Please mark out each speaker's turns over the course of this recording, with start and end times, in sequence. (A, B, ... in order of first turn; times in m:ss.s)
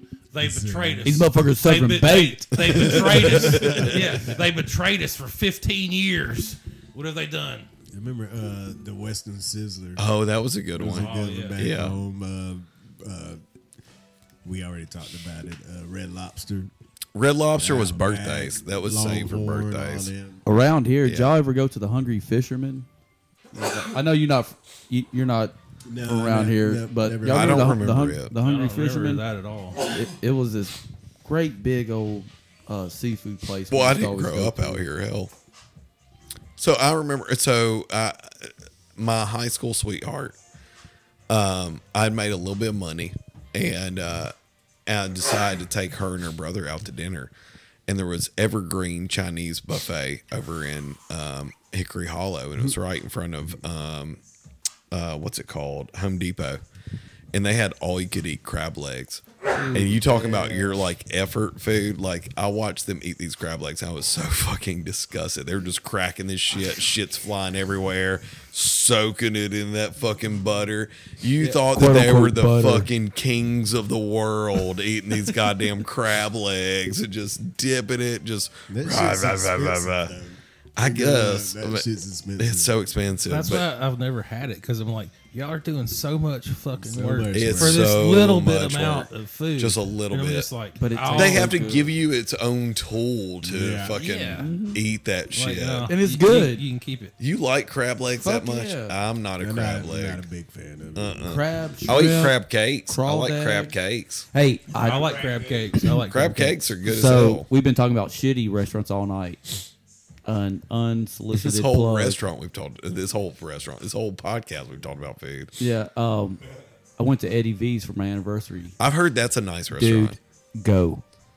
0:00.3-0:07.7 A
0:00.4-0:01.1 B
0:01.0-0:03.0 C
0:02.6-0:04.1 D
0:03.3-0:04.3 B
0:07.9-0:10.0 B
0:10.0-0:12.0 D
0:10.7-0:13.4 B
0:10.9-0:11.6 A
0:14.4-0:16.7 B
0:17.1-0:20.1 D
0:17.6-0:20.4 B
0:20.4-0:22.9 C
0:21.0-0:21.3 D
0:23.5-0:29.2 C
0:25.8-0:27.8 B
0:27.2-0:28.3 D
0:28.4-0:29.8 A
0:29.8-0:34.8 C
0:33.7-0:35.3 D
0:36.6-0:40.4 D
0:41.3-0:44.3 D
0:44.8-0:47.3 D
0:47.9-0:54.2 D
0:54.9-0:56.6 D
0:57.3-1:20.1 D
0:59.6-1:00.7 C
1:11.4-1:12.9 C
1:18.7-1:22.7 B
1:20.8-1:23.7 D
1:23.3-1:31.7 A
1:26.8-1:27.9 B
1:27.3-1:30.5 D
1:30.8-1:31.9 C
1:31.1-1:35.9 D
1:33.4-1:34.0 B
1:33.9-1:34.5 A
1:34.4-1:34.8 C
1:35.3-1:37.1 A
1:35.9-1:36.6 C
1:37.2-1:40.2 D
1:38.2-1:38.9 C
1:39.4-1:41.3 B
1:40.9-1:44.2 D
1:41.2-1:43.7 C
1:44.3-1:45.3 C
1:44.8-1:46.6 A
1:45.8-1:47.5 D
1:46.8-1:49.4 C
1:50.2-1:52.2 C
1:51.3-1:55.5 D
1:55.6-1:56.4 C
1:57.0-1:58.8 C
1:58.8-2:00.2 D
1:59.8-2:01.0 C